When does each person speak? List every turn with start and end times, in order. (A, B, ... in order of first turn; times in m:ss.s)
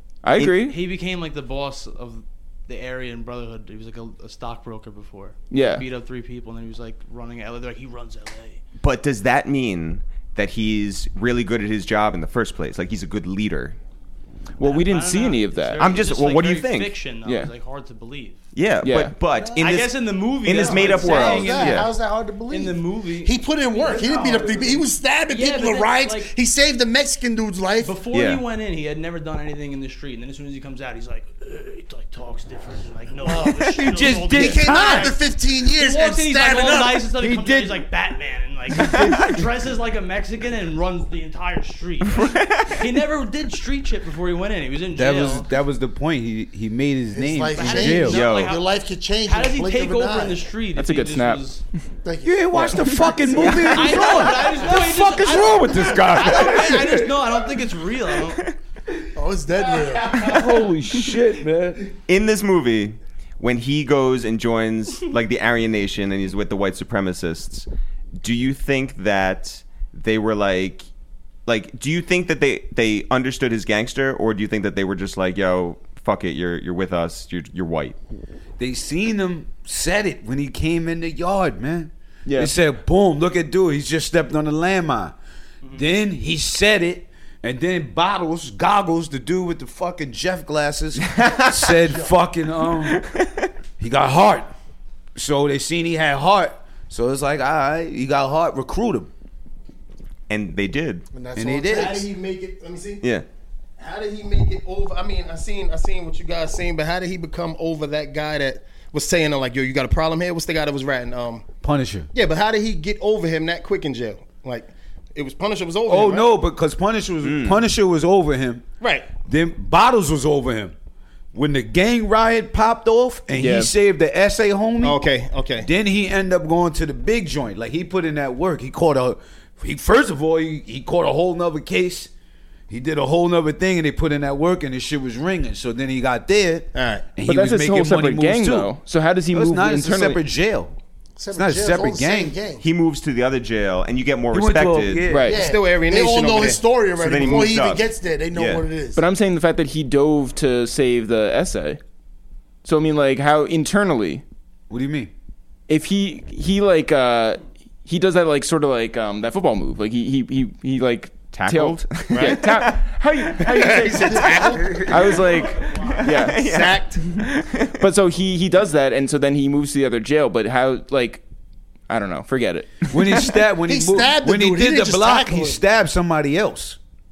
0:00.2-0:00.8 A
0:00.6-0:08.6 B
0:05.5-0:05.8 A
0:08.8-0:13.8 C
0:14.6-0:15.9 A
0:14.6-0:18.4 B
0:15.8-0:16.9 C
0:17.2-0:17.5 A
0:18.5-0:21.9 C
0:18.8-0:19.1 A
0:19.6-0:21.9 B
0:20.6-0:28.0 D
0:22.5-0:26.3 B
0:27.8-0:45.5 B
0:28.1-0:28.4 C
0:33.2-0:37.0 D
0:33.7-0:35.2 E
0:37.2-0:37.9 E
0:38.8-0:39.4 E
0:42.0-0:42.9 C
0:44.9-0:48.2 E
0:47.1-0:50.4 D
0:47.5-0:48.7 B
0:48.1-0:48.6 C
0:49.2-0:51.6 B
0:50.8-0:51.5 A
0:52.0-0:54.5 D
0:52.2-0:57.3 E
0:53.4-0:53.8 C
0:53.6-0:58.5 B
0:59.2-1:00.6 D
1:00.1-1:01.8 E
1:02.1-1:07.7 C
1:08.2-1:10.9 C
1:11.5-1:18.0 C
1:18.6-1:25.2 E
1:22.3-1:22.5 A
1:25.7-1:33.0 E
1:31.0-1:31.8 C
1:32.9-1:33.5 C
1:33.8-1:34.5 E
1:35.2-1:39.1 E
1:40.3-1:41.0 C
1:41.1-1:42.1 D
1:41.4-1:42.1 E
1:41.7-1:43.0 F
1:43.8-1:51.4 F
1:51.6-1:52.1 E
1:52.1-1:56.3 F
1:55.9-1:58.6 E
1:57.2-1:57.6 C
1:58.8-1:59.1 F
1:59.2-2:00.8 E
2:01.3-2:05.0 E
2:03.4-2:03.7 A
2:04.8-2:05.7 F
2:05.6-2:12.1 E
2:12.7-2:18.7 E
2:16.8-2:17.1 F
2:17.2-2:20.2 A
2:19.3-2:20.7 E
2:21.2-2:22.6 D
2:21.3-2:22.4 E
2:22.6-2:25.1 C
2:24.3-2:25.3 E
2:25.1-2:25.4 A
2:25.3-2:29.0 D
2:25.3-2:26.6 F
2:27.0-2:28.7 C
2:27.1-2:27.5 F
2:29.0-2:31.8 A
2:32.6-2:34.2 A
2:34.7-2:35.1 E
2:35.7-2:46.6 A
2:41.3-2:42.8 C
2:42.1-2:42.4 F
2:43.4-2:44.9 F
2:43.9-2:44.9 D
2:44.8-2:45.2 C
2:45.8-2:47.8 C
2:46.4-2:47.0 F
2:47.8-2:51.2 A
2:51.9-2:52.9 A
2:52.9-2:56.8 E
2:53.7-2:55.6 D